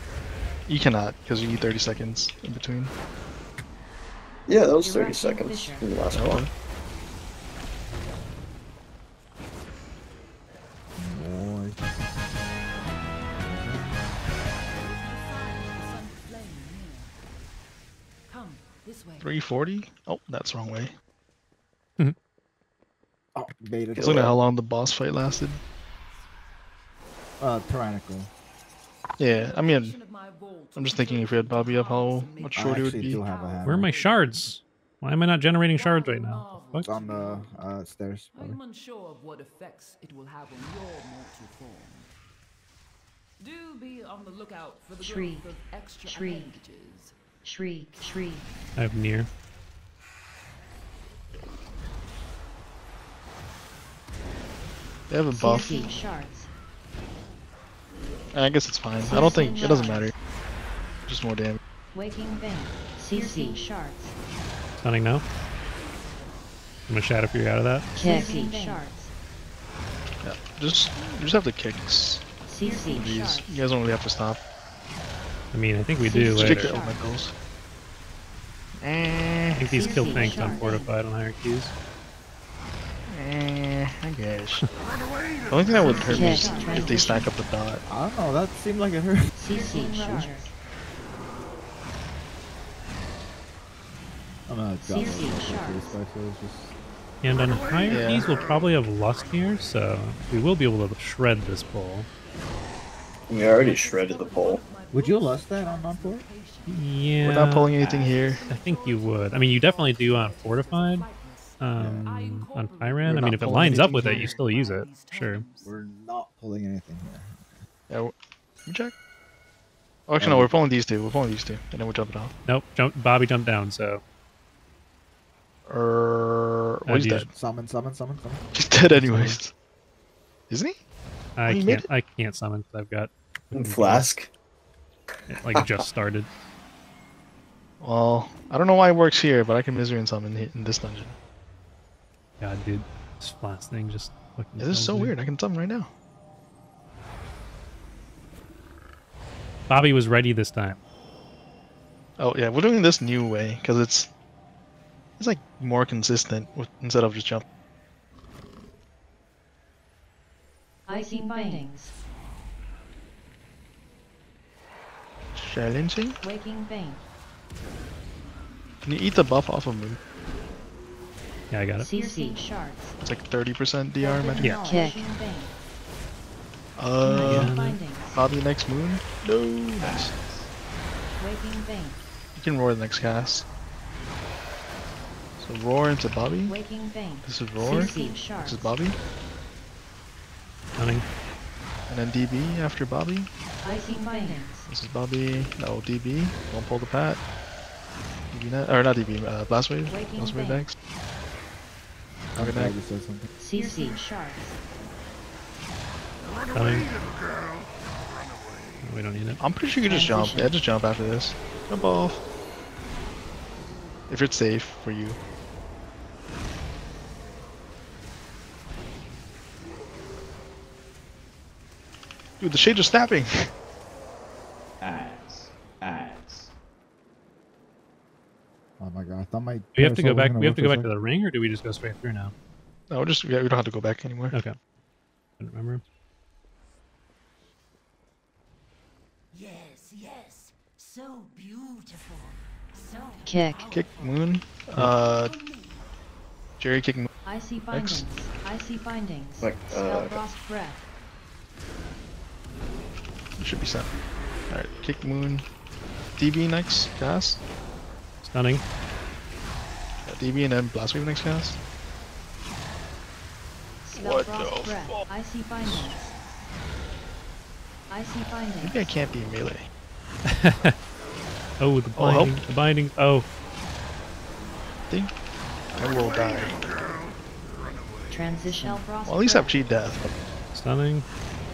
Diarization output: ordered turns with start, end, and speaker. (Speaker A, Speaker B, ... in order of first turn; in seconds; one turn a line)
Speaker A: 0.7-2.9
Speaker B: 4.5-6.5
Speaker C: 4.8-5.9
Speaker A: 6.1-6.5
Speaker D: 11.0-11.8
Speaker D: 13.4-14.2
Speaker E: 14.9-17.2
Speaker E: 18.3-19.3
Speaker A: 19.2-20.9
Speaker D: 23.3-24.3
Speaker B: 23.9-24.4
Speaker A: 24.0-25.6
Speaker D: 27.4-28.3
Speaker A: 29.2-29.9
Speaker E: 29.3-34.5
Speaker A: 30.7-33.2
Speaker D: 32.5-33.9
Speaker F: 33.6-36.9
Speaker E: 35.7-37.7
Speaker D: 36.8-38.6
Speaker E: 38.3-42.1
Speaker E: 43.4-47.1
Speaker C: 45.0-45.5
Speaker C: 46.0-46.6
Speaker C: 47.4-48.5
Speaker F: 48.8-49.3
Speaker A: 55.1-55.8
Speaker C: 55.3-56.5
Speaker A: 58.3-60.1
Speaker E: 59.0-61.1
Speaker C: 59.0-60.1
Speaker A: 61.0-61.6
Speaker C: 61.9-64.1
Speaker F: 64.8-65.2
Speaker F: 66.9-67.9
Speaker C: 68.0-69.1
Speaker A: 70.2-72.2
Speaker A: 72.7-74.4
Speaker F: 75.5-76.8
Speaker C: 76.0-77.0
Speaker A: 76.1-77.3
Speaker A: 78.8-79.9
Speaker F: 79.5-81.7
Speaker C: 79.9-80.8
Speaker A: 83.1-84.7
Speaker A: 85.5-87.8
Speaker C: 85.8-87.3
Speaker D: 87.9-89.3
Speaker C: 89.4-90.5
Speaker D: 94.5-96.7
Speaker C: 94.9-95.9
Speaker F: 97.2-102.1
Speaker A: 97.9-98.3
Speaker B: 103.3-104.6
Speaker E: 103.4-107.2
Speaker D: 104.9-106.3
Speaker F: 106.7-107.7
Speaker A: 107.2-108.4
Speaker E: 107.8-115.8
Speaker F: 108.5-111.1
Speaker F: 111.6-115.4
Speaker D: 111.8-112.1
Speaker A: 113.0-114.4
Speaker D: 115.6-117.5
Speaker A: 118.7-118.9
Speaker A: 120.1-122.3
Speaker D: 120.2-120.5
Speaker F: 122.5-124.0
Speaker A: 125.7-127.3
Speaker F: 126.9-127.3
Speaker D: 127.3-128.4
Speaker A: 128.5-129.5
Speaker F: 128.9-129.4
Speaker A: 130.5-130.8
Speaker F: 131.4-134.1
Speaker A: 131.5-131.8
Speaker B: 133.5-134.3
Speaker F: 135.3-136.3
Speaker B: 135.5-135.8
Speaker A: 137.8-141.2
Speaker F: 142.4-145.2
Speaker A: 144.6-145.9
Speaker F: 149.7-150.8
Speaker A: 152.2-154.1
Speaker A: 155.2-157.4
Speaker C: 160.9-161.9
Speaker A: 165.3-166.2
Speaker C: 166.2-167.0
Speaker A: 168.8-170.0
Speaker F: 171.5-171.9
Speaker C: 171.8-173.0
Speaker A: 173.0-174.6
Speaker C: 174.0-175.6
Speaker A: 176.8-177.5
Speaker C: 177.0-178.2
Speaker F: 177.2-177.8
Speaker A: 178.1-180.2
Speaker C: 181.2-182.0
Speaker A: 182.3-183.4
Speaker A: 185.4-186.6
Speaker C: 186.4-188.8
Speaker A: 187.2-189.0
Speaker F: 190.8-191.1
Speaker A: 191.9-193.3
Speaker C: 193.6-194.7
Speaker A: 194.7-197.2
Speaker A: 198.3-200.7
Speaker C: 199.9-200.6
Speaker D: 202.3-203.3
Speaker A: 202.4-202.7
Speaker C: 203.4-204.6
Speaker F: 206.5-206.9
Speaker F: 208.8-209.4
Speaker A: 209.4-212.2
Speaker C: 209.8-210.5
Speaker A: 214.1-215.2
Speaker A: 222.4-223.5
Speaker D: 228.8-230.9
Speaker F: 229.7-232.3
Speaker A: 232.9-234.3
Speaker F: 235.4-235.8
Speaker E: 239.3-245.9
Speaker C: 243.3-243.6
Speaker A: 243.7-245.3
Speaker A: 246.6-247.1
Speaker C: 247.2-250.8
Speaker A: 247.7-248.0
Speaker B: 249.4-250.2
Speaker A: 253.4-253.9
Speaker A: 254.5-255.4
Speaker A: 256.2-257.4
Speaker F: 258.2-258.6
Speaker A: 260.0-261.6
Speaker C: 263.8-266.1
Speaker A: 263.9-265.0
Speaker C: 267.9-268.9
Speaker A: 268.6-269.7
Speaker F: 270.2-270.8
Speaker F: 271.6-273.2
Speaker A: 271.9-272.4
Speaker A: 275.7-276.6
Speaker C: 278.1-279.6
Speaker A: 278.6-280.0
Speaker F: 280.5-281.1